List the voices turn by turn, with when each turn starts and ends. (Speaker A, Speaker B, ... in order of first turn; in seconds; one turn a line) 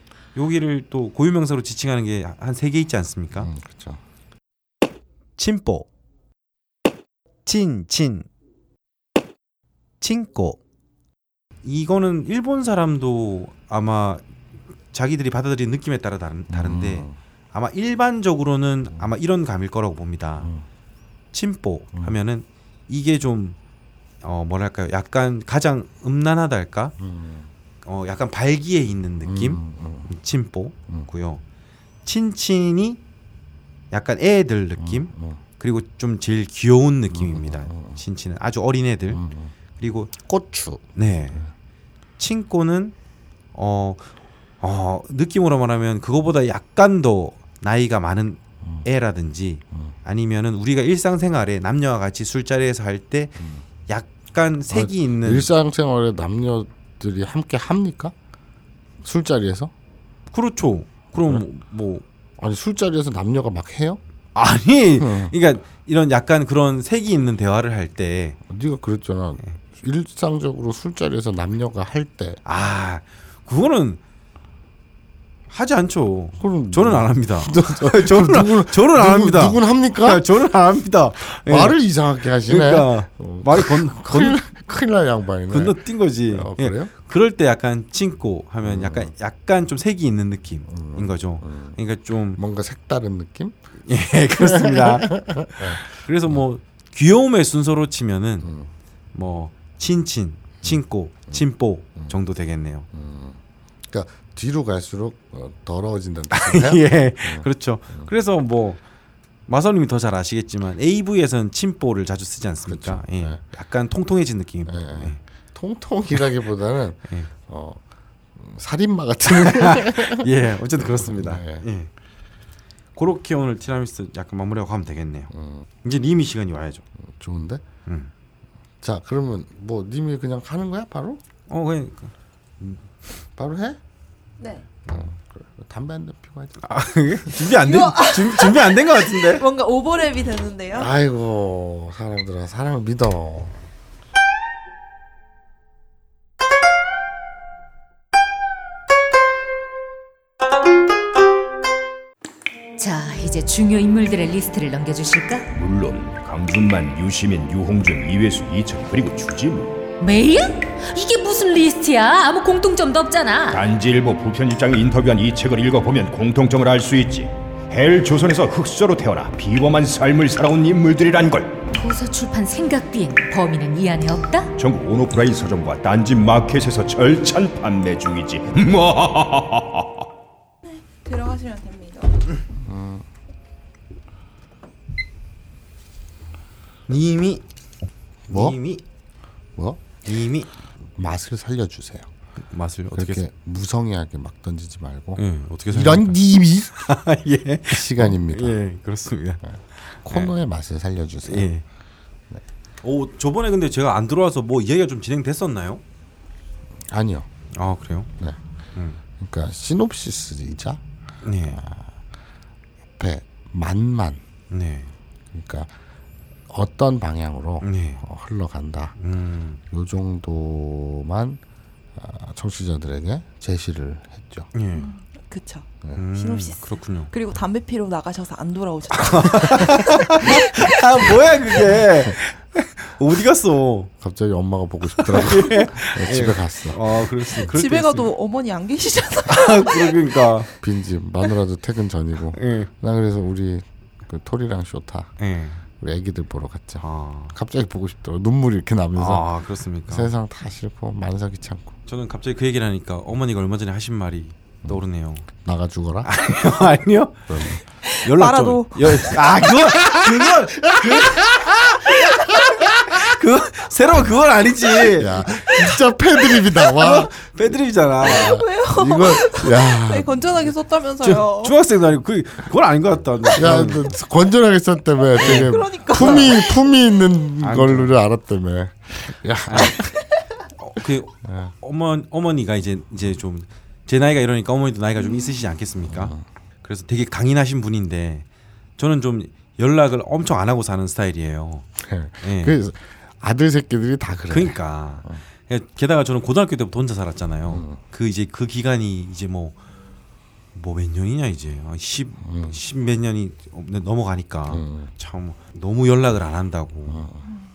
Speaker A: 0.3-3.5
Speaker B: 3.4-4.0
Speaker A: 5.4-5.9
Speaker A: 7.4-8.3
Speaker A: 10.0-10.6
Speaker A: 11.6-14.2
Speaker A: 14.9-20.5
Speaker B: 16.5-17.1
Speaker A: 21.3-23.6
Speaker A: 24.2-26.9
Speaker B: 27.0-27.5
Speaker A: 27.8-31.4
Speaker B: 29.2-30.1
Speaker A: 32.0-33.0
Speaker A: 33.9-39.2
Speaker B: 34.8-35.4
Speaker B: 37.1-38.0
Speaker B: 39.1-39.5
Speaker A: 39.8-40.1
Speaker B: 40.2-41.5
Speaker A: 40.9-41.4
Speaker A: 42.2-42.9
Speaker A: 43.5-44.1
Speaker A: 44.6-55.5
Speaker B: 54.7-58.1
Speaker B: 59.0-59.7
Speaker A: 60.3-62.0
Speaker B: 62.4-64.0
Speaker A: 64.3-68.4
Speaker B: 65.0-65.3
Speaker B: 68.5-72.4
Speaker A: 72.4-74.0
Speaker A: 75.5-81.8
Speaker B: 76.4-80.2
Speaker B: 81.5-86.9
Speaker A: 82.5-84.4
Speaker A: 85.5-92.4
Speaker B: 88.6-89.1
Speaker B: 90.7-91.8
Speaker B: 92.3-93.5
Speaker A: 93.9-98.5
Speaker B: 94.4-96.4
Speaker B: 98.4-98.7
Speaker A: 99.1-102.9
Speaker B: 102.9-108.1
Speaker A: 106.3-108.8
Speaker A: 109.5-115.2
Speaker B: 112.7-113.4
Speaker B: 114.7-117.8
Speaker B: 118.3-121.6
Speaker A: 119.3-121.9
Speaker A: 123.0-125.3
Speaker B: 125.3-125.7
Speaker A: 125.8-126.8
Speaker B: 127.0-127.6
Speaker A: 127.8-128.1
Speaker B: 128.8-131.2
Speaker A: 131.5-132.8
Speaker B: 133.4-133.8
Speaker C: 134.4-134.7
Speaker B: 134.9-136.6
Speaker A: 136.6-139.4
Speaker C: 137.5-140.9
Speaker B: 140.7-143.5
Speaker D: 152.8-155.5
Speaker E: 155.5-159.8
Speaker D: 160.0-163.6
Speaker E: 163.5-171.6
Speaker D: 171.7-174.5
Speaker E: 174.6-180.0
Speaker C: 180.7-182.2
Speaker B: 182.6-183.0
Speaker A: 186.9-187.4
Speaker B: 188.3-188.6
Speaker A: 188.3-188.8
Speaker B: 189.6-189.9
Speaker A: 190.0-190.5
Speaker B: 190.9-192.1
Speaker A: 192.5-193.2
Speaker B: 192.9-196.8
Speaker A: 195.2-196.2
Speaker A: 196.7-200.3
Speaker B: 197.7-198.6
Speaker B: 199.4-201.5
Speaker A: 201.2-201.6
Speaker A: 202.8-205.8
Speaker B: 206.9-207.3
Speaker A: 207.6-208.1
Speaker B: 209.2-210.8
Speaker A: 211.2-211.6
Speaker B: 211.4-211.8
Speaker B: 213.0-214.2
Speaker A: 214.5-214.9
Speaker B: 215.3-215.7
Speaker B: 216.5-218.9
Speaker A: 217.6-218.0
Speaker A: 219.0-219.6
Speaker B: 219.7-221.4
Speaker B: 221.9-224.5
Speaker A: 224.5-224.9
Speaker C: 224.7-231.0
Speaker A: 225.9-227.1
Speaker A: 228.9-233.9
Speaker B: 234.0-236.8
Speaker A: 234.9-238.1
Speaker C: 237.5-240.1
Speaker A: 239.3-240.5
Speaker B: 240.6-245.1
Speaker A: 242.3-242.7
Speaker A: 245.2-245.6
Speaker B: 245.8-249.2
Speaker A: 246.8-247.3
Speaker A: 248.9-250.1
Speaker B: 249.9-251.7
Speaker A: 251.9-255.3
Speaker B: 254.6-256.1
Speaker A: 256.0-257.2
Speaker B: 257.3-257.6
Speaker C: 257.9-259.1
Speaker A: 258.0-265.5
Speaker B: 259.4-263.0
Speaker B: 264.8-267.2
Speaker A: 266.8-268.4
Speaker B: 268.0-270.4
Speaker C: 268.0-271.6
Speaker A: 271.0-273.9
Speaker B: 273.3-279.9
Speaker C: 275.2-276.6
Speaker A: 275.2-276.3
Speaker A: 277.4-277.9
Speaker A: 279.5-279.8
Speaker A: 280.6-288.2
Speaker B: 281.2-281.5
Speaker C: 285.0-285.4
Speaker B: 285.9-286.2
Speaker A: 288.8-291.7
Speaker B: 291.8-295.2
Speaker A: 292.2-292.6
Speaker A: 294.3-299.5
Speaker B: 297.5-297.8
Speaker A: 300.5-307.0
Speaker B: 302.2-302.6
Speaker B: 304.5-304.9
Speaker B: 306.9-307.2